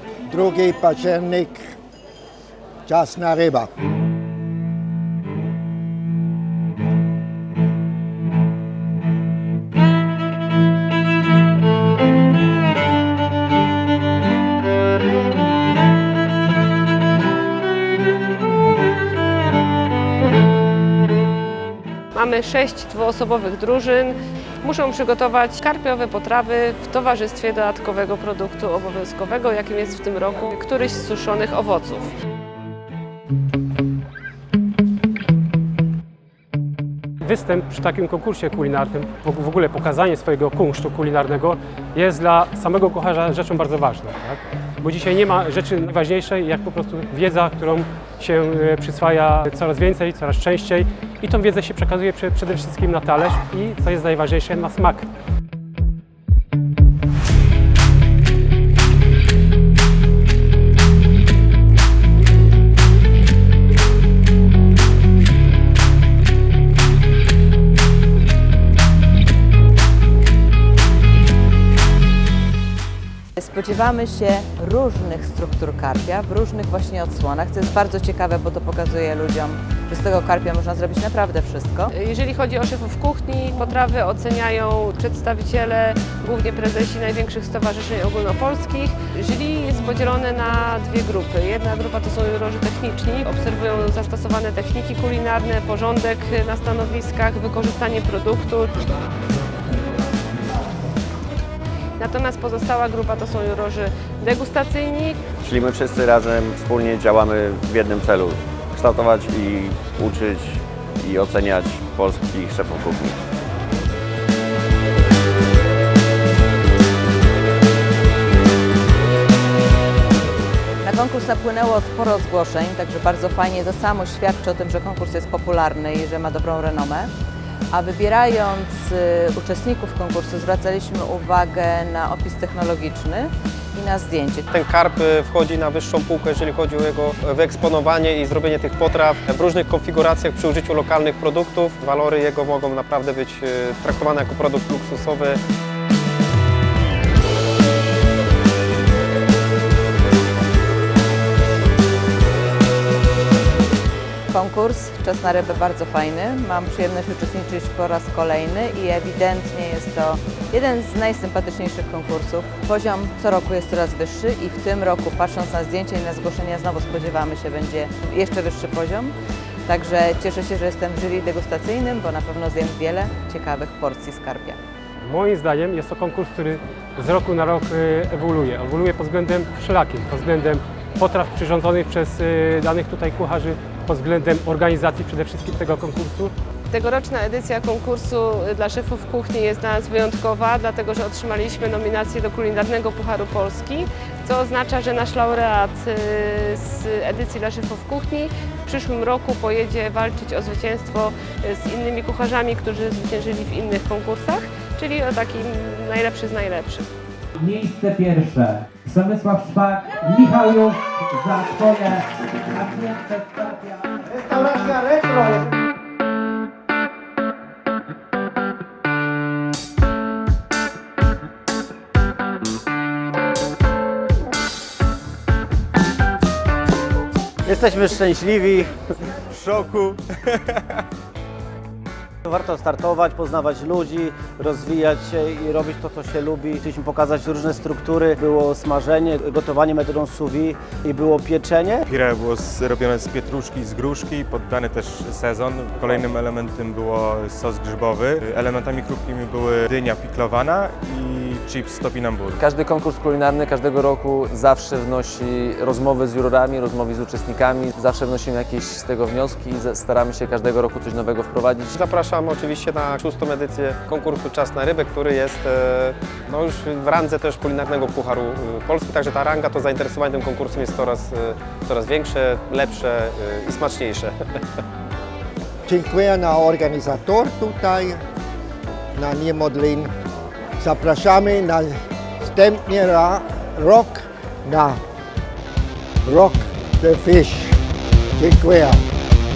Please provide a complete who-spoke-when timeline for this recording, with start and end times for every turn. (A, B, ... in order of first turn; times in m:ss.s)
0:00.3-0:01.7 A
0:02.8-0:03.7 A
0:22.1-0:32.1 B
0:37.2-0:55.1 C
1:13.4-1:21.9 D
1:22.0-1:38.8 B
1:42.0-1:45.2 B
1:45.4-1:50.5 E
1:51.0-1:53.1 E
2:00.8-2:07.1 D
2:07.7-2:14.5 D
2:14.5-2:25.4 F
2:34.3-2:49.1 D
2:49.6-2:54.6 D
2:55.0-3:06.3 C
3:06.7-3:26.9 B
3:27.4-3:32.0 G
3:32.5-3:34.4 G
3:34.1-3:35.4 H
3:47.4-3:48.7 H
3:49.3-3:50.8 I
3:52.2-4:01.8 H
4:01.8-4:12.4 I
4:12.4-4:21.8 J
4:21.8-4:34.1 F
4:35.6-4:38.0 A
4:38.9-4:39.9 A
4:40.6-4:44.8 A
4:46.0-4:47.6 A
4:48.2-4:48.8 A